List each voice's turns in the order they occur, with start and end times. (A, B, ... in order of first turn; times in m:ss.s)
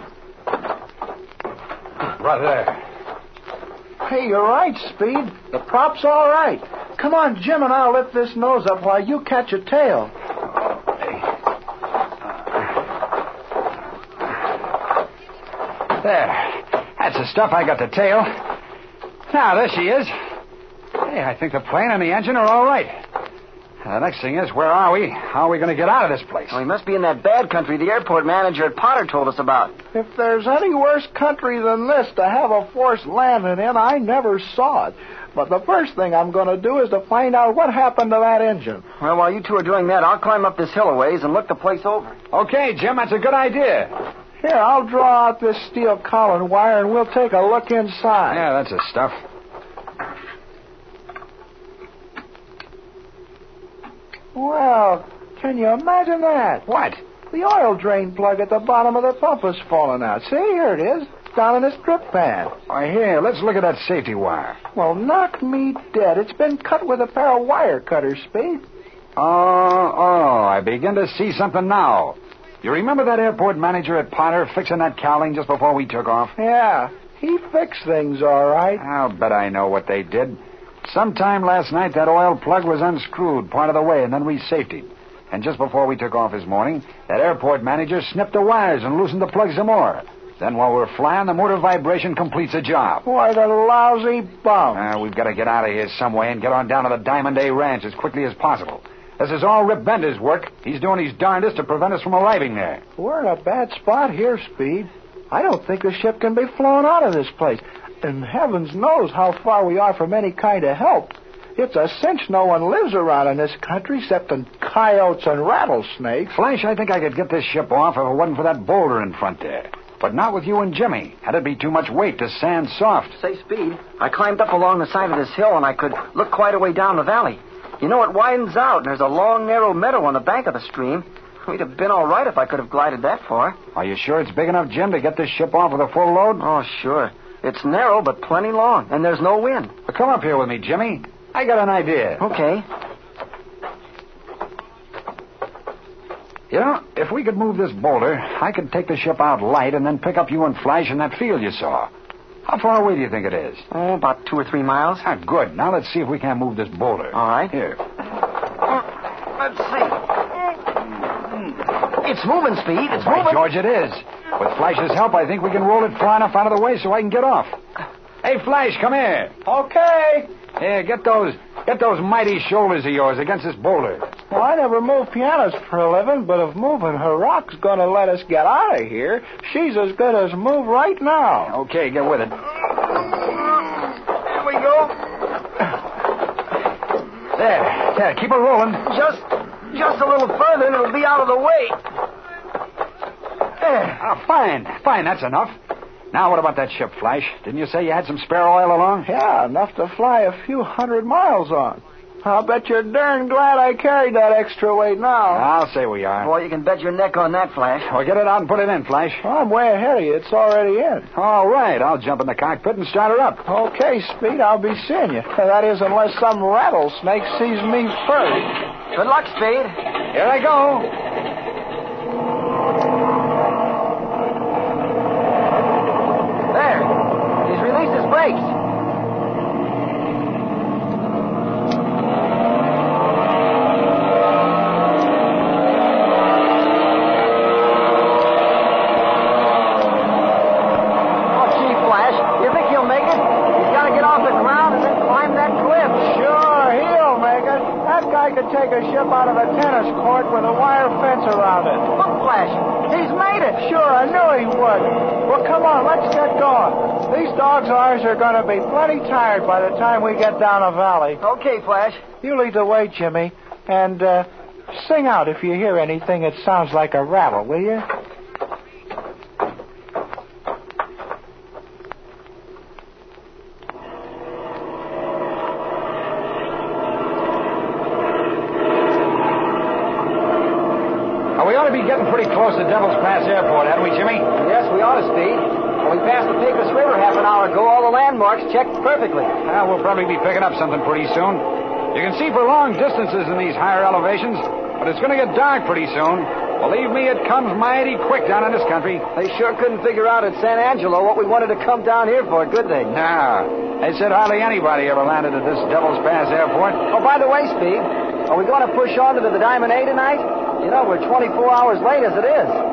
0:02.1-0:02.8 A
0:04.0-0:10.1 B
0:16.0-0:18.4 A
0:19.3-0:20.1 A
0:21.0-0:22.9 A
0:23.8-0:26.6 A
0:26.5-0:29.7 C
0:29.9-0:38.8 B
0:39.0-0:42.1 C
0:42.3-0:43.9 A
0:44.4-0:48.5 B
0:48.3-0:49.2 A
0:54.3-0:56.7 B
0:56.7-0:57.0 A
0:57.3-1:02.5 B
1:02.7-1:04.6 A
1:04.7-1:08.6 B
1:09.2-1:16.3 A
1:16.4-1:18.8 B
1:18.8-1:33.0 A
1:33.0-1:34.9 B
1:34.7-1:42.8 A
1:43.0-1:56.4 B
1:56.3-2:03.2 A
2:03.2-2:13.6 C
2:13.8-2:16.4 A
2:16.4-2:19.7 C
2:19.9-2:22.2 A
2:22.2-2:22.6 C
2:26.5-2:31.9 A
2:32.4-2:33.6 A
2:33.7-2:35.0 C
2:35.0-2:37.8 A
2:37.1-2:37.5 C
2:39.4-2:39.9 C
2:41.9-2:43.4 C
2:42.9-2:47.6 A
2:48.2-2:49.3 A
2:49.4-2:50.3 B
2:50.6-2:54.1 A
2:54.3-3:01.5 B
3:01.5-3:02.4 A
3:04.3-3:04.9 C
3:07.4-3:08.9 A
3:08.9-3:11.8 C
3:13.6-3:13.9 C
3:14.0-3:15.6 A
3:16.1-3:19.1 A
3:19.0-3:25.4 B
3:25.3-3:26.3 A
3:26.2-3:27.9 C
3:27.8-3:29.2 A
3:29.2-3:31.1 B
3:31.1-3:33.4 A
3:33.4-3:38.6 B
3:38.9-3:39.7 C
3:40.1-3:40.9 A
3:46.5-3:48.5 C
4:01.3-4:06.1 C
4:06.0-4:11.9 B
4:11.9-4:13.6 C
4:13.6-4:21.2 B
4:21.2-4:22.0 C
4:22.2-4:27.9 B
4:41.4-4:44.3 A
4:44.3-4:49.3 C
4:49.4-4:59.0 A
4:59.1-5:02.9 C
5:02.9-5:06.8 A
5:06.9-5:12.6 C